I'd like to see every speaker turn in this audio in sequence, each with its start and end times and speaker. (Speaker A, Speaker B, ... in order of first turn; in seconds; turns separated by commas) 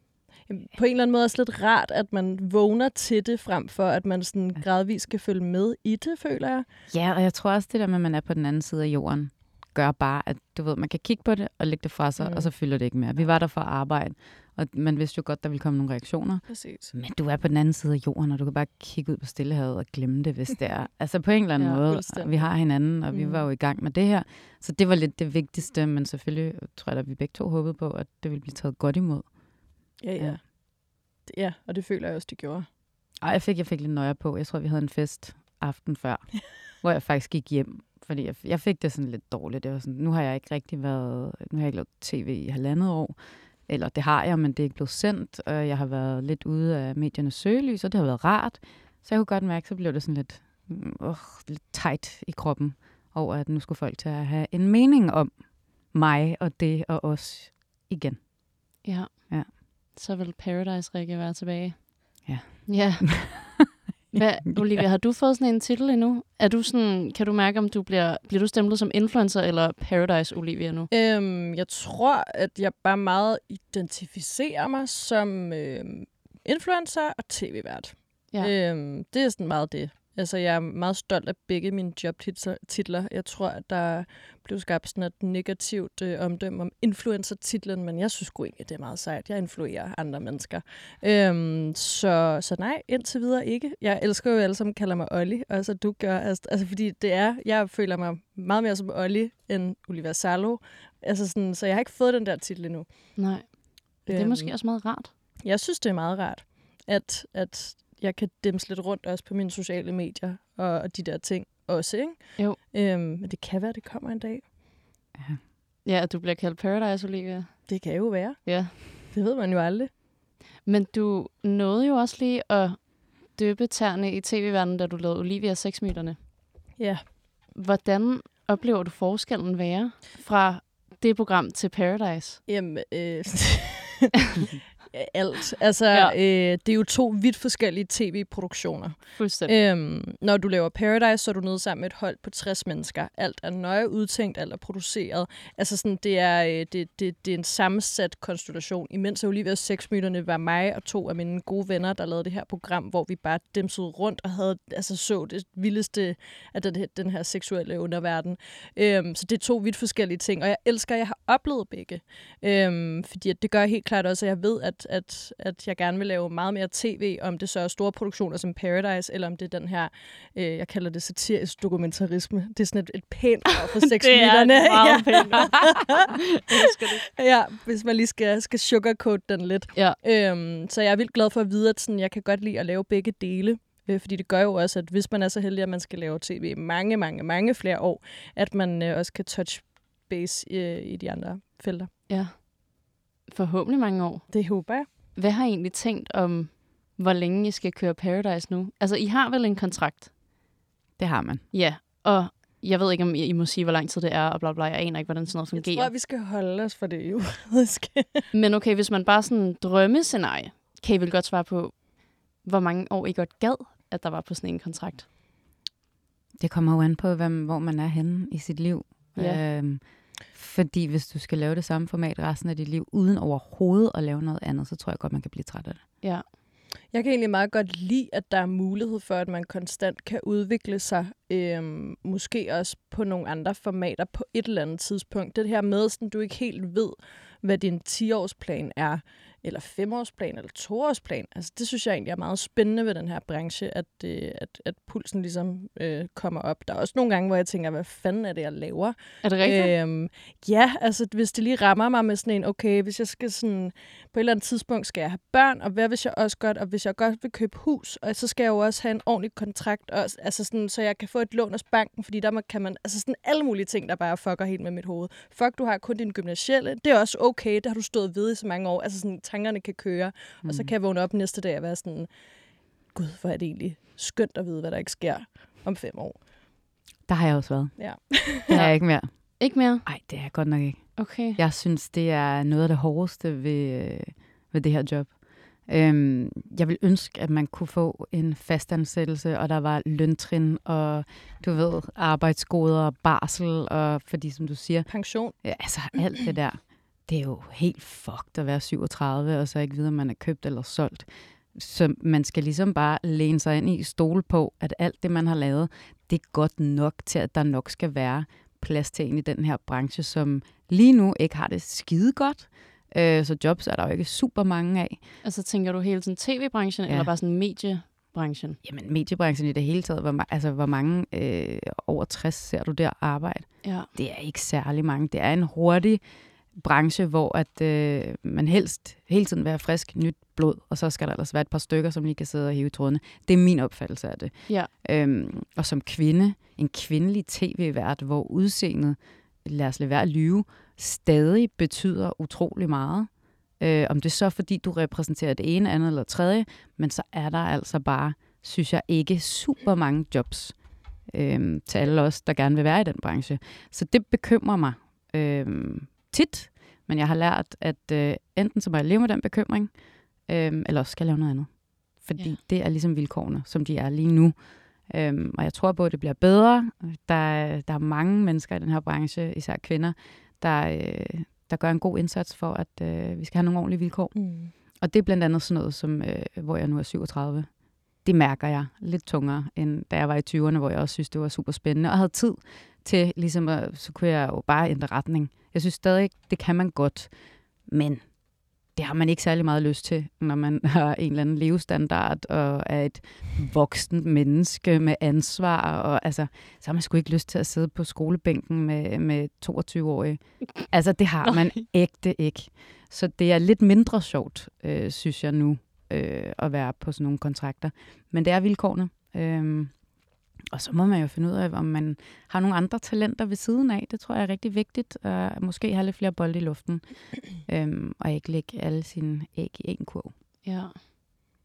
Speaker A: 0.5-6.7, Speaker B: 6.9-30.4, Speaker A: 12.2-12.5, Speaker A: 16.5-16.9, Speaker A: 21.8-23.5, Speaker A: 30.0-32.7, Speaker B: 33.2-58.3, Speaker C: 58.8-70.9, Speaker B: 62.2-64.2, Speaker A: 70.9-103.3, Speaker C: 103.2-105.1, Speaker A: 104.1-104.6, Speaker A: 105.4-114.5, Speaker C: 115.8-117.9, Speaker A: 117.7-119.9, Speaker C: 118.4-118.7, Speaker C: 120.6-126.2, Speaker A: 126.8-127.1, Speaker C: 127.5-132.4, Speaker A: 132.5-134.1, Speaker A: 134.9-191.9, Speaker C: 139.2-139.5, Speaker C: 173.8-177.1, Speaker C: 192.1-194.4, Speaker A: 194.3-194.9, Speaker C: 195.1-200.1, Speaker B: 201.0-201.4, Speaker C: 201.5-205.9, Speaker A: 205.5-208.2, Speaker C: 208.3-215.1, Speaker B: 216.4-225.8, Speaker C: 219.2-219.4, Speaker A: 226.9-272.1, Speaker C: 249.2-249.7, Speaker B: 270.4-270.7, Speaker A: 272.9-276.2, Speaker B: 277.1-315.0, Speaker A: 277.8-278.6, Speaker C: 278.5-279.9, Speaker C: 281.0-281.4, Speaker A: 294.9-295.5, Speaker C: 315.2-318.6, Speaker B: 318.6-326.0, Speaker C: 323.6-323.9, Speaker B: 326.5-377.5, Speaker A: 374.1-374.5, Speaker B: 378.0-388.1, Speaker B: 388.7-409.8, Speaker C: 401.2-401.6, Speaker B: 410.5-420.1, Speaker C: 420.4-421.1